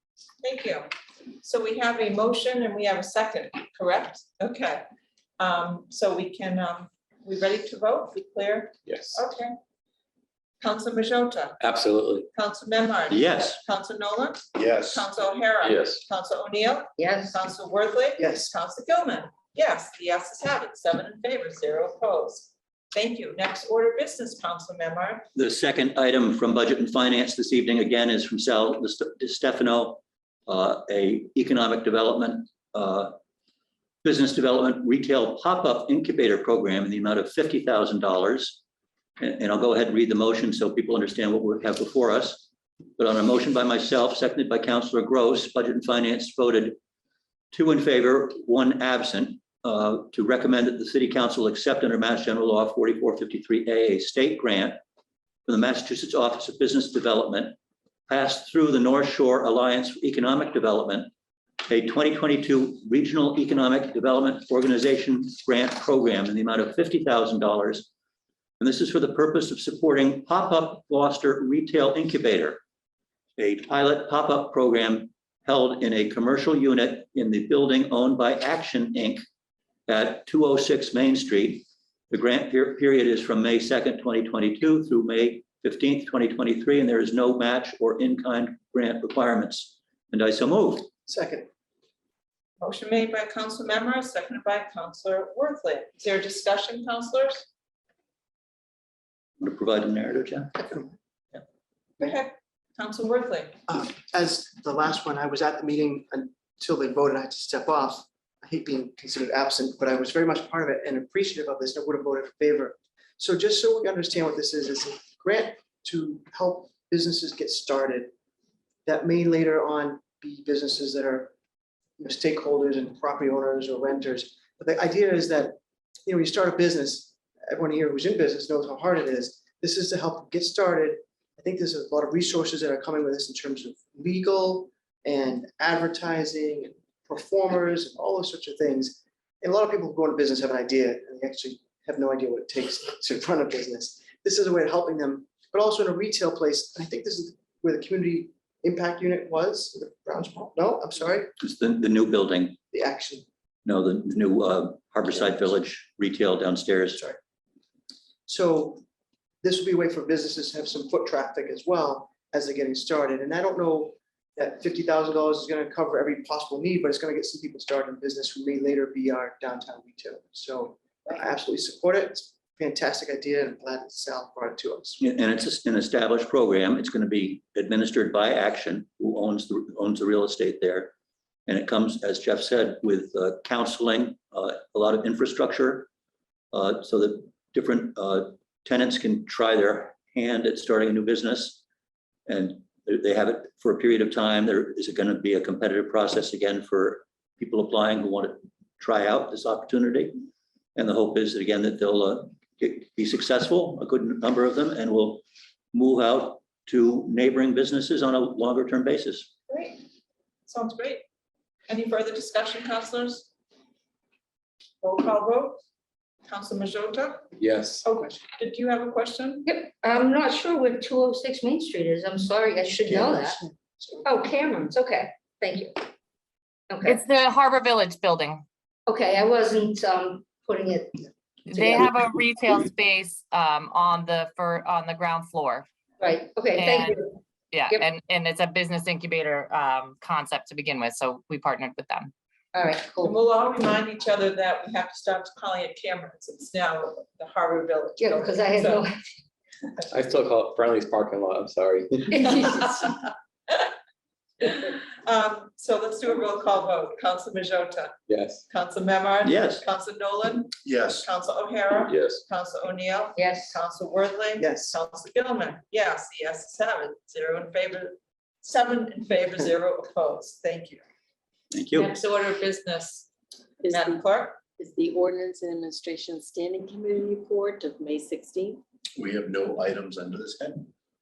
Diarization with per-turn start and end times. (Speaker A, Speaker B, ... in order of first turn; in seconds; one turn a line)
Speaker A: 0.4-0.9
Speaker A: 1.4-4.8
Speaker A: 5.4-9.5
Speaker B: 8.9-9.2
Speaker A: 10.6-11.6
Speaker B: 11.6-12.3
Speaker A: 12.3-25.2
Speaker C: 13.1-13.6
Speaker D: 14.5-15.1
Speaker B: 15.7-16.0
Speaker E: 17.0-17.3
Speaker F: 18.2-18.5
Speaker C: 25.3-33.1
Speaker C: 34.0-38.6
Speaker C: 39.2-42.5
Speaker C: 43.0-46.8
Speaker C: 47.5-54.8
Speaker C: 55.5-57.5
Speaker C: 58.1-61.1
Speaker C: 61.6-67.9
Speaker C: 68.6-72.6
Speaker C: 73.4-79.2
Speaker C: 79.9-90.9
Speaker F: 91.0-91.5
Speaker A: 92.6-97.4
Speaker C: 99.4-100.7
Speaker A: 102.0-103.5
Speaker F: 103.7-118.1
Speaker F: 118.8-121.3
Speaker F: 122.0-151.3
Speaker C: 151.4-152.6
Speaker F: 152.7-153.3
Speaker C: 153.6-157.0
Speaker F: 158.3-158.8
Speaker F: 159.4-175.0
Speaker C: 175.0-180.9
Speaker C: 181.5-185.9
Speaker C: 186.5-191.6
Speaker C: 192.3-200.1
Speaker C: 200.8-209.3
Speaker A: 209.5-209.8
Speaker A: 210.5-211.0
Speaker A: 211.7-213.3
Speaker A: 214.8-215.6
Speaker A: 216.3-217.3
Speaker B: 217.4-217.8
Speaker A: 217.8-219.5
Speaker E: 219.4-223.4
Speaker E: 224.0-225.9
Speaker E: 226.7-227.0
Speaker G: 226.8-228.4
Speaker E: 228.9-231.9
Speaker G: 231.5-235.7
Speaker E: 236.0-237.1
Speaker G: 236.6-242.1
Speaker E: 242.5-243.2
Speaker A: 243.0-248.8
Speaker E: 248.0-249.0
Speaker B: 249.9-252.0
Speaker E: 252.1-252.7
Speaker A: 254.4-257.9
Speaker B: 258.1-258.4
Speaker A: 258.5-270.8
Speaker C: 259.2-259.6
Speaker D: 260.6-261.1
Speaker B: 261.9-262.2
Speaker E: 263.2-263.5
Speaker F: 264.4-264.8
Speaker C: 271.5-271.9
Speaker A: 271.8-273.1
Speaker H: 273.6-274.0
Speaker A: 273.6-274.4
Speaker H: 274.6-278.6
Speaker D: 279.0-280.7